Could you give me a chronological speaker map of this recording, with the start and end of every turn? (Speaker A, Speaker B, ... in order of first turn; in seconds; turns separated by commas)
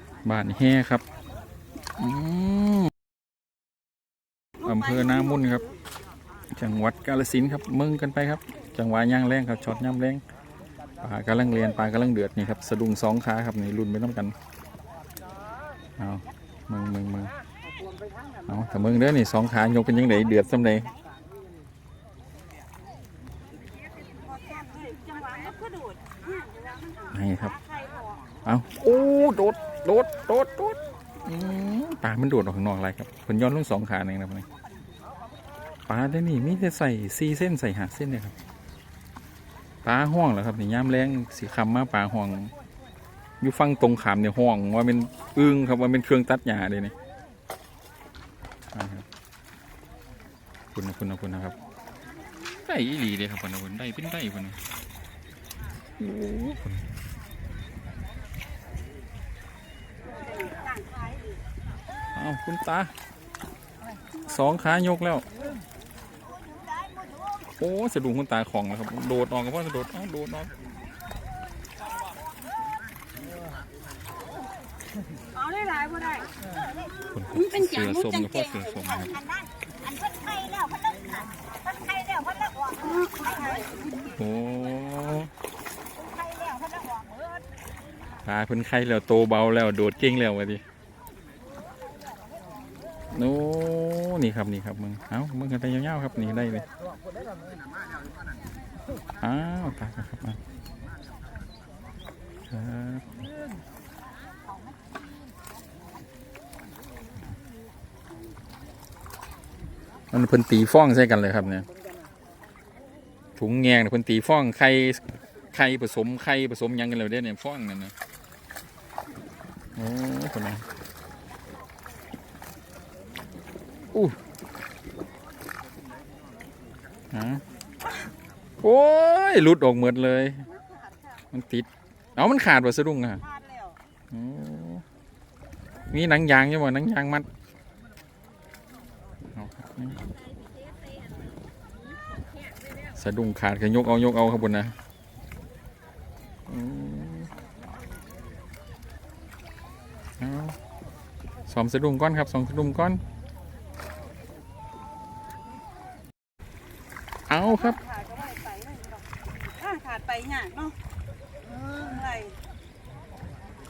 Speaker A: 0.2-1.0, Speaker A: 2.0-2.9, Speaker A: 4.6-5.6, Speaker B: 4.6-5.6, Speaker A: 6.5-10.2, Speaker A: 11.0-14.3, Speaker A: 16.0-17.3, Speaker A: 18.5-20.9, Speaker B: 24.0-28.1, Speaker A: 27.1-27.6, Speaker A: 28.4-34.5, Speaker A: 35.9-38.3, Speaker A: 39.8-42.5, Speaker A: 43.4-47.0, Speaker A: 48.7-49.0, Speaker A: 50.8-51.6, Speaker A: 52.7-54.6, Speaker A: 56.0-56.9, Speaker B: 60.3-61.3, Speaker A: 62.1-62.9, Speaker A: 64.2-65.3, Speaker C: 67.0-67.3, Speaker A: 67.5-70.5, Speaker B: 75.3-76.3, Speaker A: 77.1-79.2, Speaker B: 77.3-79.1, Speaker C: 79.2-83.0, Speaker B: 82.8-84.2, Speaker A: 84.1-85.3, Speaker C: 86.2-87.4, Speaker A: 88.2-90.6, Speaker A: 93.1-96.7, Speaker A: 99.2-100.4, Speaker A: 102.5-103.2, Speaker A: 110.1-111.7, Speaker A: 113.4-117.9, Speaker A: 119.8-120.6, Speaker A: 127.1-127.4, Speaker A: 128.6-130.5, Speaker B: 130.5-131.2, Speaker A: 131.3-133.2, Speaker B: 133.2-133.8, Speaker A: 134.1-134.8, Speaker A: 135.9-137.3, Speaker A: 139.3-140.0, Speaker A: 142.9-144.8, Speaker A: 146.5-147.3, Speaker A: 150.2-150.6, Speaker A: 151.5-153.0, Speaker A: 157.3-157.8, Speaker B: 157.5-160.8, Speaker B: 161.7-162.4